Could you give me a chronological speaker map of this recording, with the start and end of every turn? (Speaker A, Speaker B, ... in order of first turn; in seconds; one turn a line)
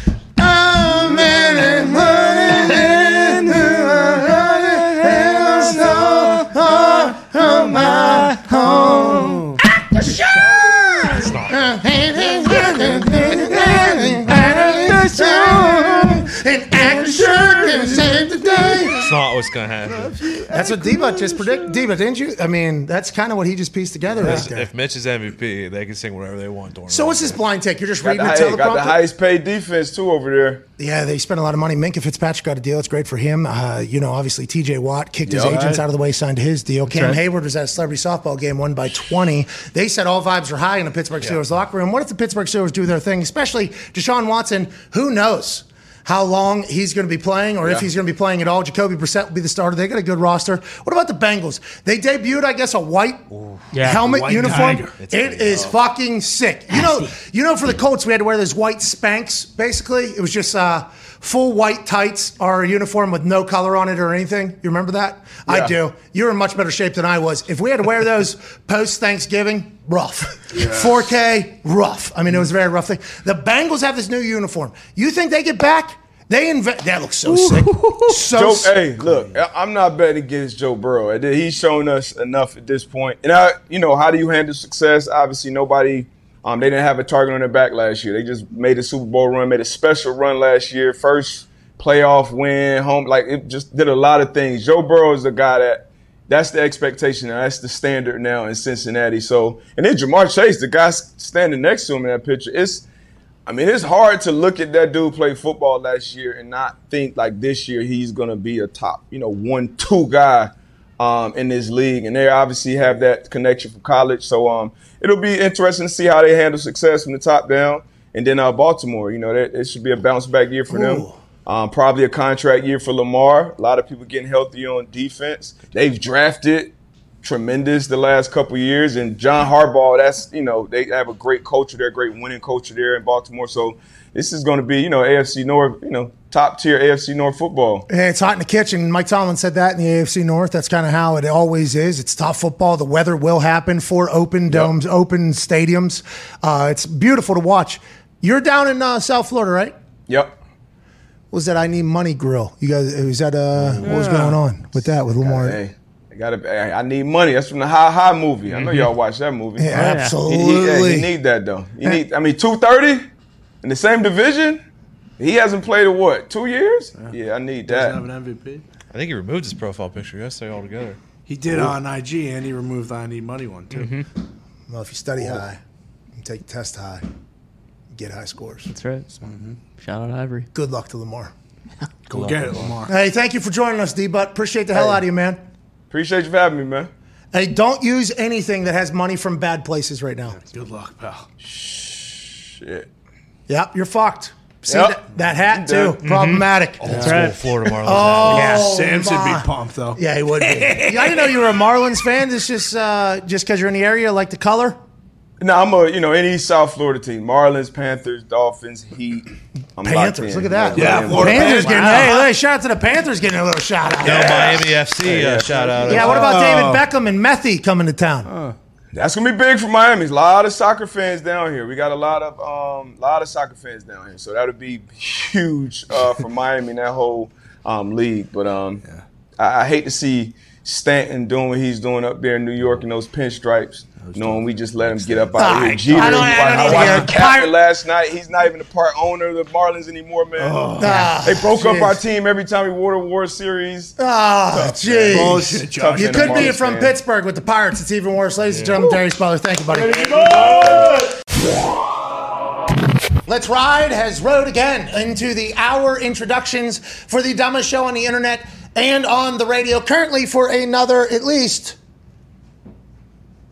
Speaker A: 0.4-19.0
Speaker B: 11.2-11.7
Speaker C: 13.1-13.8
Speaker C: 14.9-16.2
Speaker C: 17.1-18.8
Speaker B: 18.9-20.4
Speaker C: 19.9-21.8
Speaker A: 20.5-24.7
Speaker B: 24.2-27.4
Speaker A: 26.9-29.0
Speaker D: 28.0-30.6
Speaker A: 30.8-78.8
Speaker D: 35.2-35.7
Speaker C: 35.4-35.8
Speaker C: 36.9-37.2
Speaker E: 53.7-54.0
Speaker C: 53.8-55.0
Speaker B: 55.0-55.8
Speaker D: 65.5-65.8
Speaker C: 70.5-71.1
Speaker D: 78.2-102.9
Speaker D: 103.5-137.8
Speaker A: 120.7-121.2
Speaker A: 137.9-149.7
Speaker D: 150.1-150.4
Speaker A: 151.3-155.6
Speaker C: 153.6-154.4
Speaker D: 155.2-163.1
Speaker E: 158.5-158.8
Speaker A: 159.6-161.1
Speaker E: 159.7-160.2
Speaker D: 163.6-164.6
Speaker D: 165.2-168.0
Speaker C: 167.7-168.6
Speaker B: 168.9-171.0
Speaker C: 171.3-173.9
Speaker E: 173.7-174.1
Speaker A: 174.7-175.6
Speaker A: 176.2-177.1
Speaker A: 177.9-178.7
Speaker E: 178.7-179.1
Speaker C: 179.2-179.6
Speaker E: 179.8-180.5
Speaker A: 180.5-181.3
Speaker C: 182.1-182.9
Speaker A: 182.9-185.4
Speaker D: 185.9-186.9
Speaker A: 187.3-190.4
Speaker C: 190.4-191.3
Speaker D: 191.4-192.9
Speaker A: 193.5-197.2
Speaker D: 194.7-196.0
Speaker E: 196.0-197.5
Speaker B: 196.8-198.6
Speaker C: 196.8-197.3
Speaker A: 197.8-204.8
Speaker C: 198.3-201.4
Speaker E: 198.3-198.7
Speaker D: 205.4-211.6
Speaker A: 209.8-214.6
Speaker C: 210.7-212.2
Speaker E: 211.4-212.3
Speaker B: 214.0-216.3
Speaker D: 214.0-216.1
Speaker C: 215.8-216.8
Speaker A: 215.8-218.3
Speaker C: 218.3-218.6
Speaker D: 218.9-228.8
Speaker D: 229.4-243.9
Speaker B: 234.1-235.4
Speaker A: 235.4-237.5
Speaker C: 240.4-241.2
Speaker A: 240.8-242.0
Speaker A: 244.0-250.7
Speaker D: 244.5-246.9
Speaker C: 245.1-246.6
Speaker C: 248.5-248.8
Speaker D: 249.7-251.2
Speaker A: 253.3-261.8